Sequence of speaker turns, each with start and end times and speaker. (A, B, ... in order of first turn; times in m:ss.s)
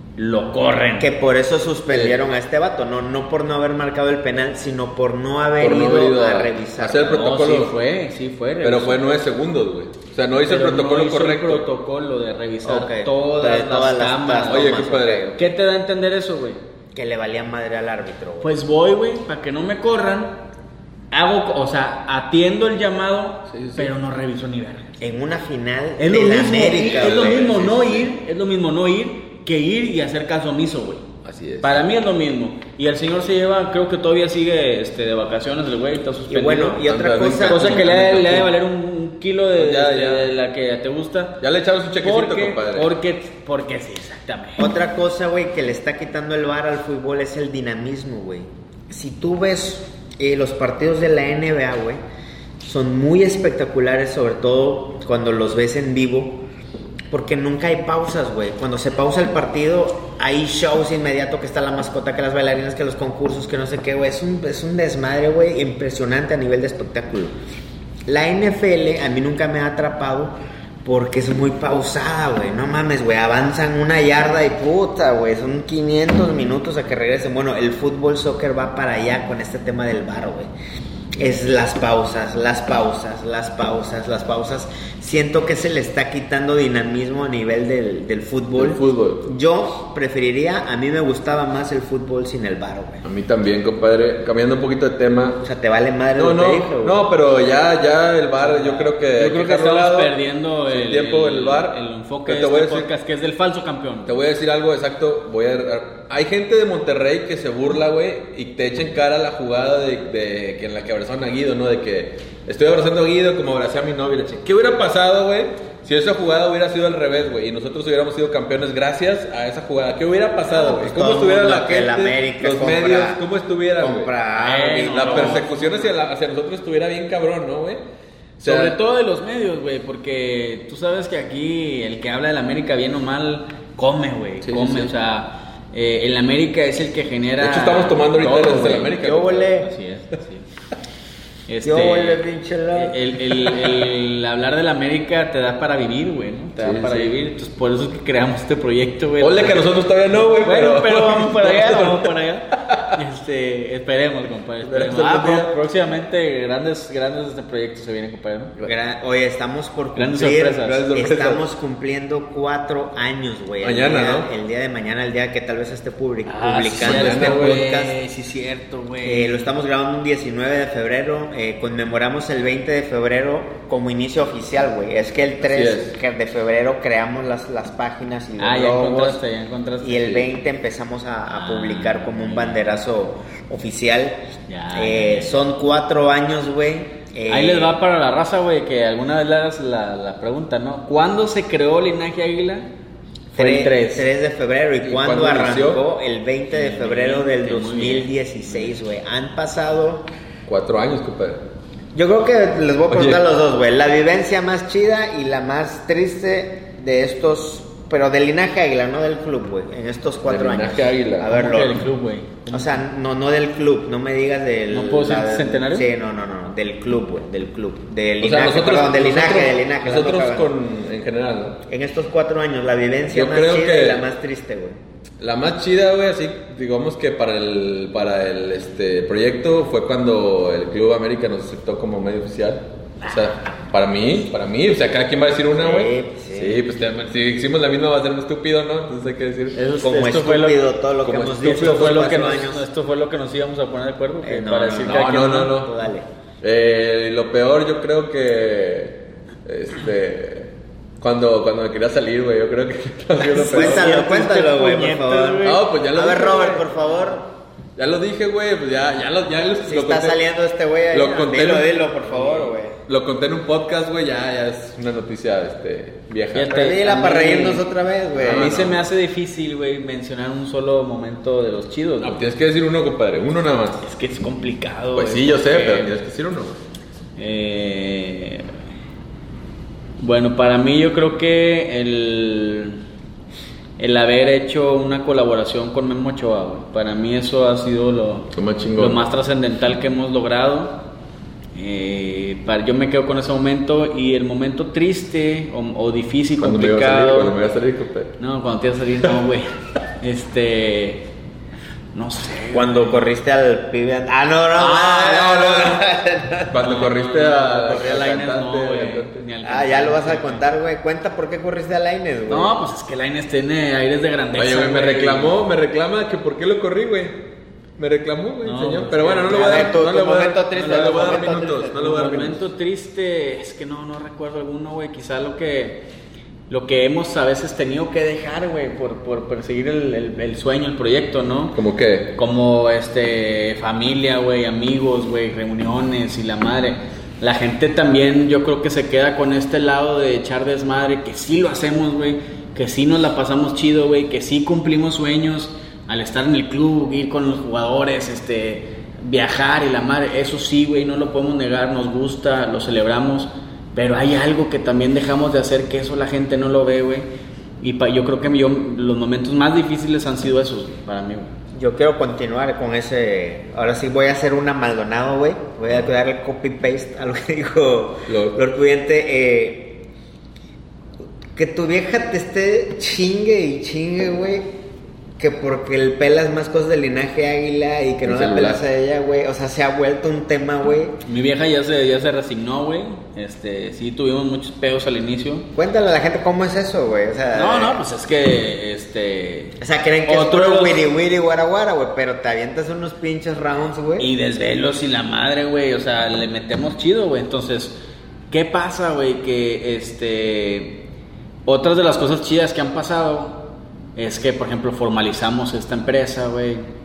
0:00.2-0:01.1 A
0:01.0-0:07.3 B
0:01.9-0:02.2 C
0:05.6-0:07.7 C
0:07.1-0:09.0 A
0:08.6-0:11.7 C
0:10.5-0:14.8 A
0:12.6-0:15.4 B
0:14.5-0:15.4 C
0:15.4-0:16.6 A
0:16.9-0:18.6 B
0:18.4-0:20.4 A
0:21.1-0:25.0 A
0:23.5-0:23.9 C
0:25.0-0:27.5 B
0:26.0-0:31.0 A
0:26.8-0:28.1 C
0:31.2-0:31.8 C
0:31.6-0:36.8 A
0:36.3-0:37.9 B
0:36.8-0:38.5 C
0:37.4-0:41.4 A
0:39.6-0:40.3 C
0:41.4-0:42.9 C
0:42.0-0:44.7 A
0:44.6-0:52.0 B
0:52.6-0:56.4 B
0:57.1-1:07.3 B
1:08.1-1:20.5 B
1:21.2-1:33.0 B
1:28.6-1:29.3 C
1:33.0-1:35.4 C
1:35.4-1:37.0 B
1:36.2-1:40.1 C
1:38.4-1:44.2 A
1:40.7-1:42.9 C
1:44.1-2:04.1 C
2:00.5-2:03.2 B
2:03.8-2:05.6 B
2:04.4-2:05.9 A
2:04.9-2:07.8 C
2:08.4-2:08.8 C
2:08.4-2:19.0 A
2:14.4-2:14.9 C
2:17.4-2:19.5 C
2:18.3-2:19.7 B
2:19.6-2:20.4 A
2:21.5-2:22.2 A
2:21.6-2:23.0 B
2:22.7-2:29.6 A
2:26.6-2:27.2 C
2:29.2-2:32.1 C
2:30.2-2:38.5 A
2:32.7-2:33.0 C
2:34.6-2:35.5 C
2:38.6-2:48.0 B
2:40.0-2:40.9 A
2:40.6-2:41.4 C
2:43.6-2:44.3 C
2:46.2-2:49.5 A
2:46.8-2:47.6 C
2:49.0-2:59.2 B
2:55.4-2:56.0 C
2:58.4-3:00.3 A
2:59.8-3:04.2 B
3:01.3-3:02.6 A
3:04.5-3:05.4 A
3:04.7-3:07.8 B
3:07.3-3:12.7 A
3:13.3-3:20.1 B
3:13.3-3:14.1 A
3:14.8-3:15.8 C
3:16.5-3:18.7 A
3:20.5-3:21.4 C
3:22.0-3:31.9 B
3:22.9-3:23.2 C
3:30.3-3:31.3 C
3:31.2-3:32.8 A
3:32.5-3:40.5 B
3:34.7-3:35.9 A
3:38.2-3:41.6 C
3:41.7-3:44.8 B
3:43.1-3:44.0 C
3:45.2-3:59.6 C
3:53.0-3:53.4 A
3:55.6-3:56.6 B
3:59.5-4:00.7 A
3:59.8-4:02.6 B
4:01.0-4:02.3 C
4:01.4-4:05.6 A
4:04.2-4:06.1 B
4:04.9-4:05.7 C
4:06.4-4:14.0 C
4:13.2-4:15.6 A
4:13.4-4:17.2 B
4:15.4-4:16.7 C
4:17.8-4:20.2 C
4:19.6-4:22.8 B
4:20.9-4:21.8 C
4:22.1-4:22.5 A
4:22.4-4:26.5 C
4:26.3-4:27.7 A
4:26.5-4:28.5 B
4:28.2-4:28.8 C
4:28.3-4:32.2 A
4:32.0-4:33.8 C
4:33.8-4:35.9 A
4:35.0-4:36.6 C
4:37.2-4:38.5 A
4:40.0-4:42.8 A
4:43.8-4:50.8 A
4:48.3-4:49.0 C
4:51.6-4:57.3 A
4:56.4-4:58.2 C
4:58.2-4:59.5 A
5:00.0-5:01.1 A
5:01.9-5:03.1 A
5:02.5-5:06.6 B
5:04.6-5:05.7 A
5:06.5-5:09.2 C
5:06.6-5:10.5 A
5:09.4-5:12.6 B
5:12.3-5:15.4 A
5:14.4-5:17.2 C
5:17.8-5:22.4 C
5:18.4-5:19.8 A
5:19.3-5:22.2 B
5:20.5-5:25.8 A
5:26.5-5:31.6 A
5:31.5-5:32.2 C
5:32.2-5:57.1 A
5:57.6-6:01.3 A
6:01.6-6:09.8 B
6:08.1-6:08.4 C
6:11.4-6:14.5 B
6:15.2-6:21.0 B
6:18.0-6:18.6 C
6:21.0-6:25.5 A
6:25.6-6:27.8 B
6:27.3-6:30.9 A
6:29.6-6:34.1 B
6:34.0-6:37.8 A
6:38.3-6:40.8 A
6:41.5-6:46.7 A